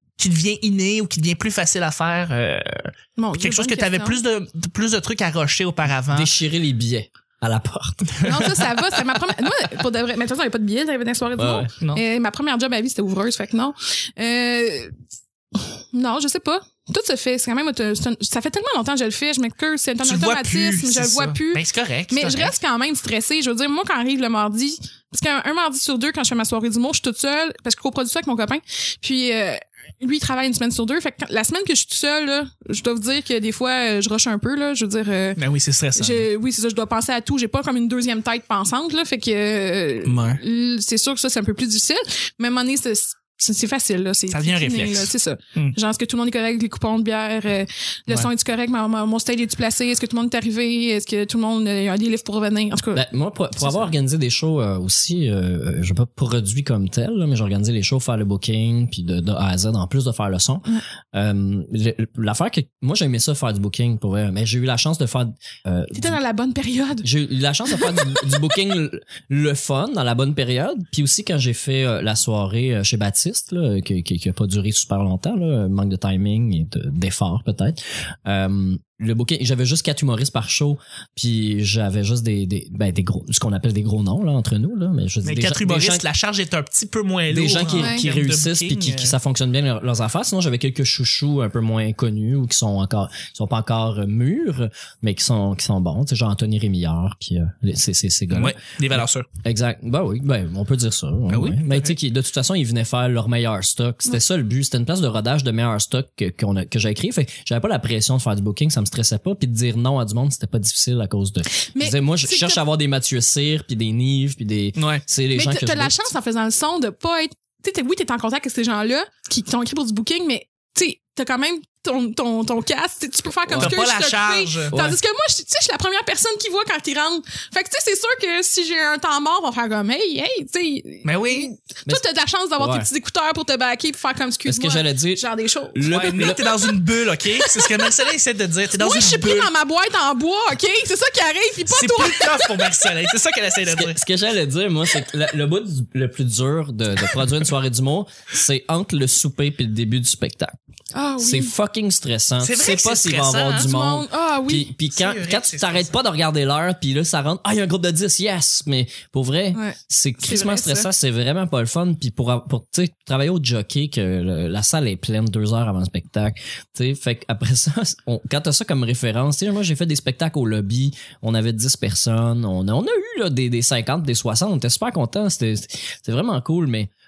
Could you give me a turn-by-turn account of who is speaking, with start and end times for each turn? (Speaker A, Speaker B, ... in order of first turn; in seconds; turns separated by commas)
Speaker A: 0.2-6.3, Speaker B: 3.2-4.2, Speaker C: 6.1-8.5, Speaker B: 8.2-14.9, Speaker C: 11.4-11.7, Speaker B: 15.6-35.4, Speaker A: 20.0-22.6, Speaker A: 35.4-36.3, Speaker B: 36.0-53.1, Speaker A: 40.0-40.4, Speaker A: 44.3-45.8, Speaker C: 52.9-66.2, Speaker B: 53.6-53.9, Speaker B: 65.9-67.1, Speaker C: 67.0-86.0, Speaker B: 67.7-68.3, Speaker A: 85.2-89.2, Speaker C: 87.3-116.0, Speaker B: 87.8-88.0, Speaker A: 98.3-99.3, Speaker A: 101.3-102.0, Speaker B: 111.6-112.6, Speaker A: 114.8-115.0, Speaker B: 115.3-136.7, Speaker C: 123.5-123.8, Speaker A: 123.6-124.8, Speaker C: 124.7-125.0, Speaker A: 131.1-131.5, Speaker C: 132.6-132.9, Speaker C: 134.5-136.4, Speaker A: 135.9-139.5, Speaker B: 137.4-138.1, Speaker B: 138.8-142.8, Speaker A: 141.7-144.0, Speaker C: 143.7-150.5, Speaker B: 150.9-151.5, Speaker C: 151.2-176.9, Speaker A: 152.4-153.7, Speaker B: 153.6-154.7, Speaker A: 154.9-156.0, Speaker B: 159.5-160.9